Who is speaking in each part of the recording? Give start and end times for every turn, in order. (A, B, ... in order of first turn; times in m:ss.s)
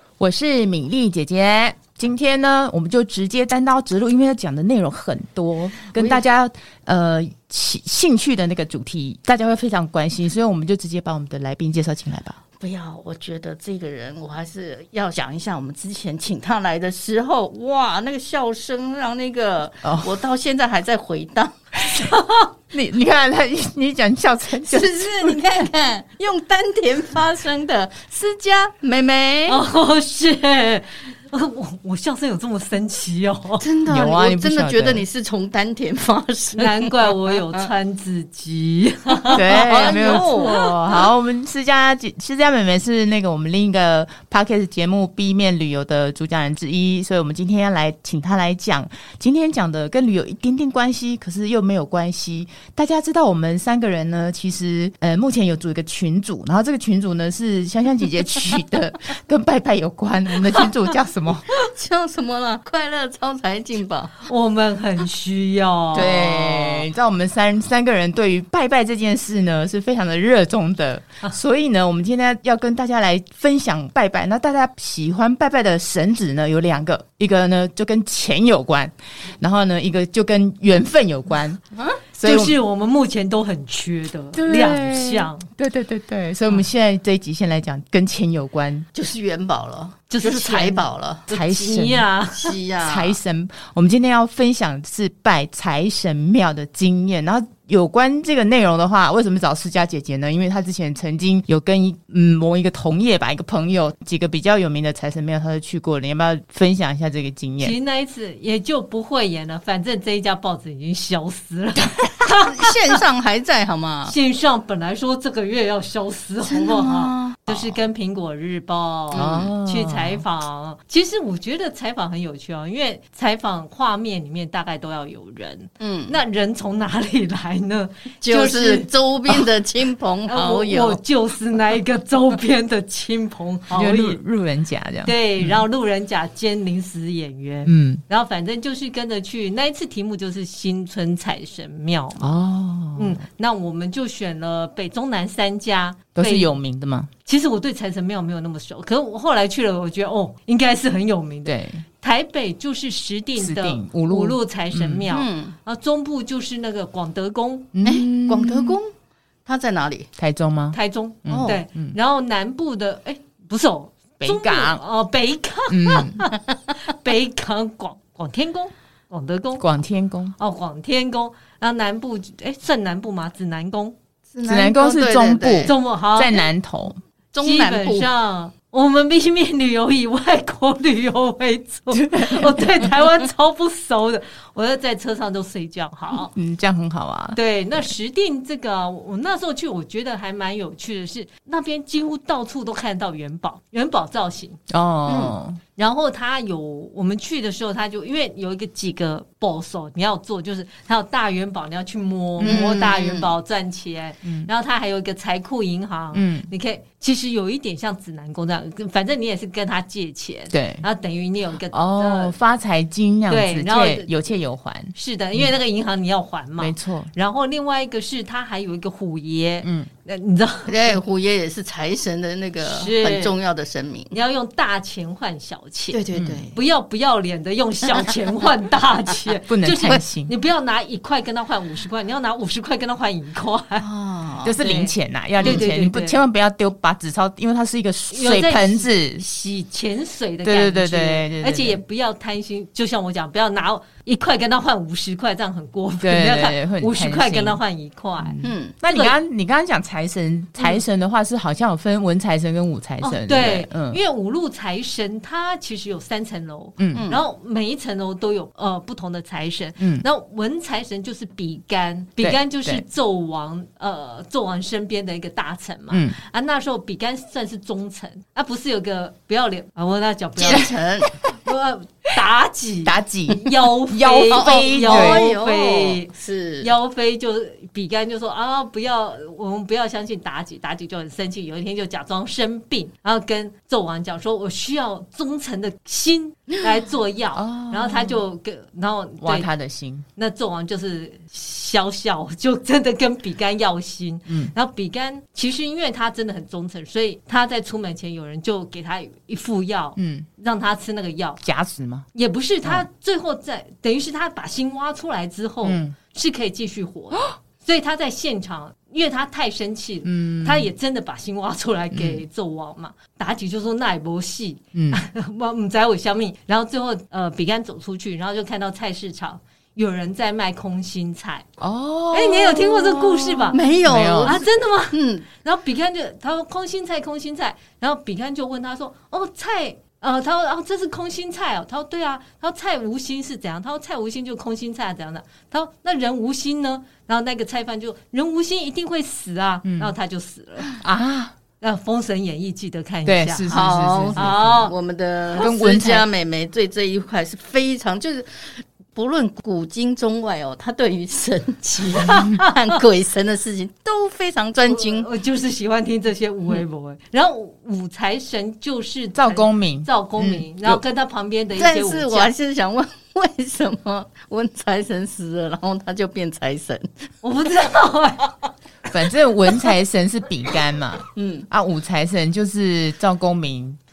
0:00.2-0:12.4 A
0:12.6-0:21.6 B
0:19.8-0:20.1 A
0:21.8-0:22.5 C
0:22.7-0:25.4 A
0:24.6-0:29.6 B
0:29.5-0:33.6 C
0:33.6-0:37.7 B
0:33.8-0:35.0 A
0:36.5-0:40.8 C
0:39.2-0:40.6 B
0:39.3-1:01.5 A
1:01.5-1:04.3 B
1:04.3-1:06.1 C
1:05.9-1:06.9 B
1:05.9-1:21.6 A
1:21.7-1:22.0 B
1:22.2-1:22.5 A
1:22.2-1:25.5 C
1:24.3-1:28.8 A
1:28.9-1:31.3 B
1:30.1-1:32.5 C
1:31.3-1:32.0 A
1:32.3-1:33.2 B
1:32.8-1:47.7 A
1:47.6-1:53.0 C
1:52.4-1:54.1 B
1:54.0-2:08.9 C
1:56.4-1:57.4 B
1:59.1-2:00.2 A
1:59.1-1:59.5 B
2:05.8-2:06.2 B
2:08.2-2:11.0 B
2:10.3-2:14.2 C
2:13.7-2:15.6 A
2:15.0-2:22.2 C
2:17.7-2:18.0 A
2:22.2-2:23.2 A
2:23.0-2:26.5 C
2:26.1-2:27.1 A
2:27.2-2:37.7 C
2:31.4-2:31.8 A
2:33.4-2:35.0 A
2:35.1-2:35.5 B
2:37.7-2:38.8 A
2:37.8-2:38.9 B
2:39.4-2:40.1 B
2:40.2-2:42.0 A
2:40.7-2:49.6 C
2:41.3-2:41.6 B
2:44.2-2:44.8 A
2:45.7-2:46.2 A
2:49.6-2:50.4 A
2:50.4-2:54.0 C
2:54.3-2:55.7 B
2:54.5-2:57.0 A
2:55.6-2:56.4 C
2:57.3-2:58.1 B
2:57.4-3:06.3 C
3:01.9-3:02.9 A
3:06.1-3:07.4 A
3:07.3-3:14.6 C
3:14.7-3:15.6 A
3:15.1-3:15.4 B
3:15.8-3:32.4 C
3:22.4-3:22.7 A
3:22.4-3:23.3 B
3:24.2-3:24.5 A
3:26.1-3:26.5 A
3:30.5-3:30.8 A
3:31.7-3:35.5 A
3:33.3-3:34.1 C
3:34.9-3:41.0 C
3:36.6-3:37.1 A
3:39.6-3:39.9 A
3:40.7-3:44.1 B
3:42.6-3:43.3 C
3:44.1-3:46.0 C
3:45.9-3:46.5 B
3:46.1-3:46.5 A
3:46.5-3:53.8 C
3:49.5-3:50.3 A
3:53.8-3:54.6 B
3:54.4-3:59.2 A
3:54.6-3:56.2 C
3:58.1-4:09.2 C
4:00.4-4:01.8 A
4:06.0-4:07.6 A
4:08.2-4:14.0 A
4:08.4-4:08.7 B
4:13.0-4:30.7 C
4:16.8-4:17.0 A
4:16.9-4:17.2 B
4:19.8-4:20.0 A
4:22.2-4:22.8 A
4:25.9-4:26.2 A
4:30.4-4:31.1 B
4:31.2-4:49.5 C
4:32.8-4:35.3 A
4:34.3-4:36.7 B
4:47.3-4:48.2 A
4:49.2-4:50.0 A
4:50.2-5:01.4 C
4:54.3-4:54.5 A
5:00.0-5:00.3 A
5:01.4-5:02.0 A
5:02.1-5:21.4 C
5:05.6-5:06.0 A
5:10.0-5:10.7 A
5:11.9-5:12.2 A
5:14.7-5:15.0 A
5:21.6-5:24.4 A
5:22.1-5:23.6 C
5:23.5-5:25.2 B
5:24.2-5:40.7 C
5:39.6-5:39.9 A
5:40.8-5:41.3 A
5:41.6-5:43.5 C
5:43.0-5:44.3 A
5:43.5-5:55.1 B
5:44.1-5:44.7 C
5:45.3-5:46.0 A
5:51.8-5:52.7 C
5:54.6-6:02.3 C
5:59.1-6:00.8 A
6:01.6-6:07.1 B
6:07.2-6:08.5 C
6:08.9-6:13.8 A
6:11.1-6:11.5 B